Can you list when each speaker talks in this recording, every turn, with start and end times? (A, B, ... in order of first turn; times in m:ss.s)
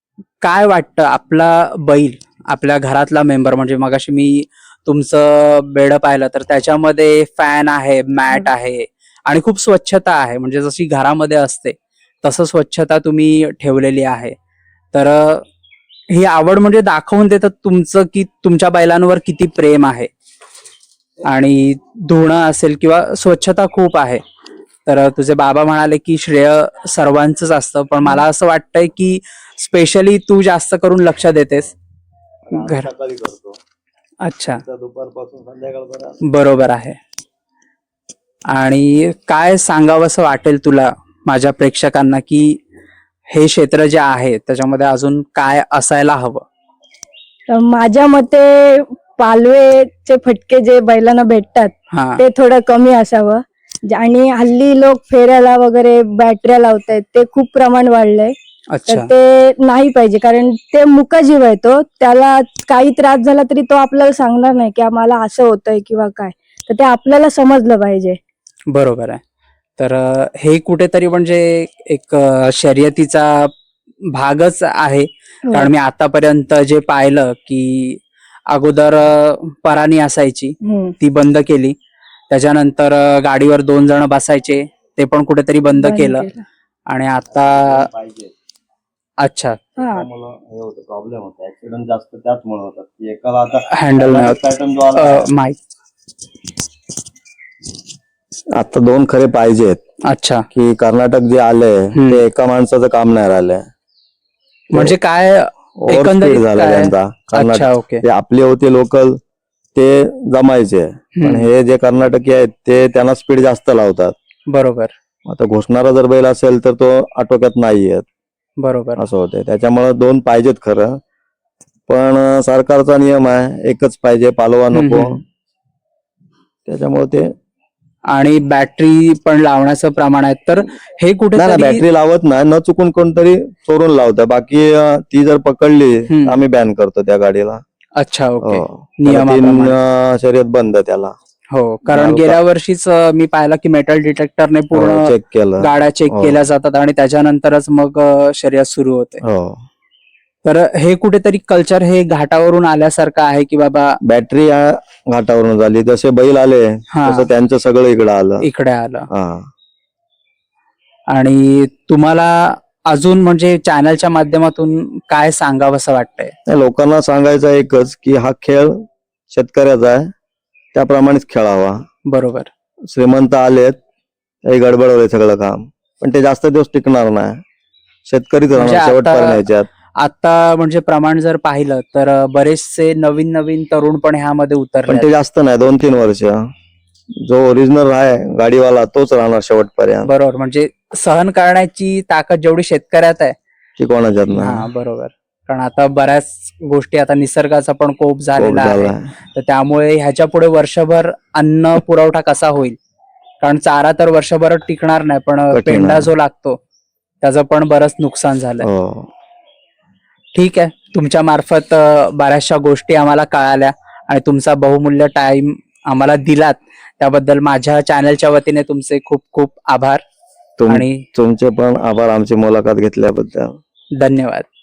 0:00.4-0:14.4 A
0:14.9-0:15.4 A
0:16.1-0:20.1 A
0:21.2-0:24.2 A
0:24.9-0:31.7 A
0:32.5-0:33.6 B
0:32.5-0:32.9 A
0:34.2-0:34.6 A
0:34.6-0:36.2 B
0:36.2-0:37.0 A
0:38.5-0:42.6 A
0:43.3-0:46.4 A
0:47.5-0:58.4 C
0:51.9-0:52.2 A
0:58.7-0:59.1 A
0:58.9-1:08.2 C
1:08.7-1:09.2 A
1:09.8-1:13.5 A
1:14.1-1:21.8 A
1:20.6-1:21.0 C
1:22.3-1:26.3 A
1:25.8-1:26.4 C
1:26.9-1:27.9 A
1:27.3-1:28.3 B
1:29.2-1:29.7 A
1:29.8-1:30.1 C
1:29.8-1:35.3 B
1:33.7-1:34.4 A
1:35.0-1:35.6 A
1:38.5-1:39.8 B
1:40.1-1:40.4 A
1:40.5-1:43.7 B
1:42.0-1:42.2 A
1:44.7-1:48.0 A
1:45.8-1:49.2 B
1:49.8-1:54.1 B
1:51.2-1:51.5 A
1:54.5-1:54.9 A
1:55.3-1:58.1 B
1:58.6-1:59.0 A
1:59.0-2:01.0 B
2:01.9-2:05.2 B
2:04.7-2:05.2 A
2:06.7-2:07.3 B
2:08.1-2:11.8 A
2:11.4-2:17.6 B
2:16.1-2:16.4 A
2:18.0-2:19.8 A
2:18.4-2:21.1 B
2:21.5-2:29.2 A
2:21.9-2:22.4 B
2:24.7-2:26.4 B
2:29.2-2:29.6 B
2:30.4-2:34.0 A
2:34.1-2:38.4 B
2:36.9-2:37.3 A
2:38.4-2:39.1 A
2:39.1-2:39.5 B
2:41.1-2:46.3 A
2:46.5-2:50.1 B
2:50.7-2:51.8 B
2:52.1-2:52.5 A
2:52.9-2:53.8 B
2:54.5-2:57.4 B
2:58.1-2:59.7 B
2:58.5-2:59.4 A
3:00.0-3:05.1 A
3:04.9-3:06.4 B
3:07.3-3:10.1 B
3:10.0-3:13.4 A
3:13.8-3:14.7 B
3:14.3-3:22.8 A
3:18.4-3:19.1 B
3:23.4-3:26.6 A
3:25.5-3:26.1 B
3:27.2-3:28.7 A
3:28.6-3:29.1 B
3:30.3-3:40.0 A
3:40.6-3:43.6 B
3:40.7-3:41.0 A
3:44.0-3:44.5 A